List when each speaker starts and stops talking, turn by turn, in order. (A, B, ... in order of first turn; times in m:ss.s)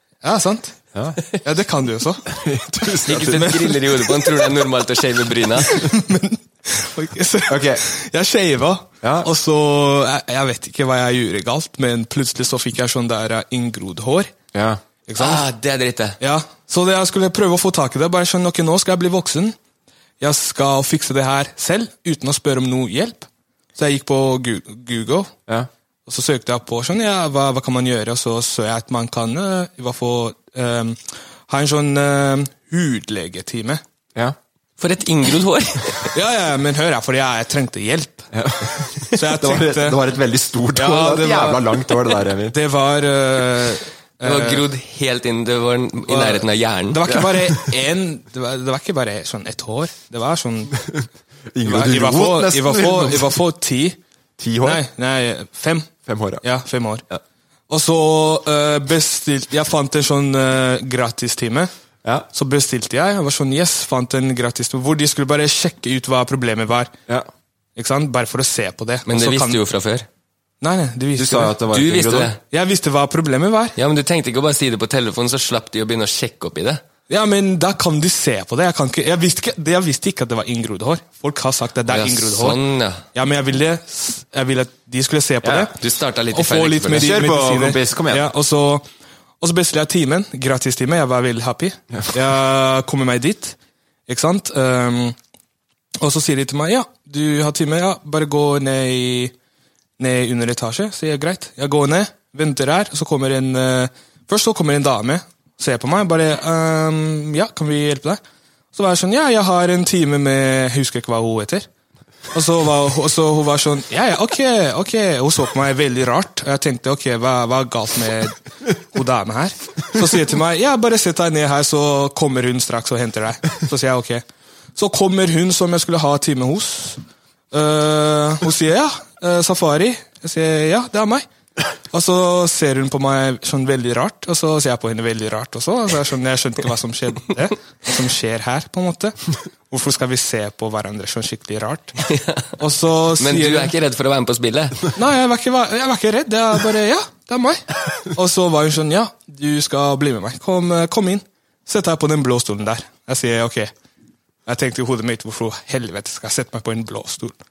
0:00.2-0:00.8 A
0:00.9-0:01.2 B
0:01.4-0:02.3 A
0:02.3-0:03.7 B
0:03.1-0:05.8 C
0:03.2-0:03.9 A
0:05.6-0:14.3 A
0:07.5-0:07.8 B
0:09.0-0:09.3 B
0:14.5-0:14.8 B
0:15.1-0:15.4 A
0:15.2-0:16.2 C
0:16.2-0:19.6 A
0:20.2-0:25.3 A
0:26.0-0:33.8 A
0:34.8-0:36.1 C
0:36.1-0:38.3 A
0:38.3-0:42.6 B
0:39.1-0:40.0 A
0:40.7-0:41.9 A
0:42.5-0:44.6 A
0:44.2-0:47.0 C
0:46.1-0:50.8 A
0:47.1-0:47.7 B
0:50.8-0:53.4 B
0:51.6-0:54.0 A
0:54.4-0:54.8 B
0:54.6-0:55.9 A
0:56.0-0:56.4 B
0:56.4-0:57.0 A
0:57.7-1:01.7 A
1:02.3-1:06.9 A
1:07.8-1:09.6 A
1:09.1-1:10.0 C
1:10.6-1:11.5 A
1:11.2-1:12.3 B
1:11.7-1:12.4 C
1:12.5-1:13.7 A
1:13.8-1:16.8 C
1:17.1-1:22.6 A
1:21.9-1:23.0 C
1:23.1-1:25.7 A
1:25.4-1:25.7 B
1:25.8-1:27.1 C
1:26.3-1:28.9 A
1:26.9-1:28.3 B
1:29.4-1:33.6 A
1:34.1-1:35.2 A
1:36.0-1:39.3 A
1:40.0-1:48.2 A
1:48.7-1:51.7 A
1:52.3-1:58.4 A
1:58.9-2:04.2 A
2:04.8-2:07.0 A
2:07.5-2:11.2 A
2:11.9-2:19.2 A
2:19.7-2:22.0 A
2:22.0-2:22.5 C
2:22.6-2:23.7 A
2:23.2-2:24.9 C
2:24.9-2:33.7 A
2:34.4-2:37.4 A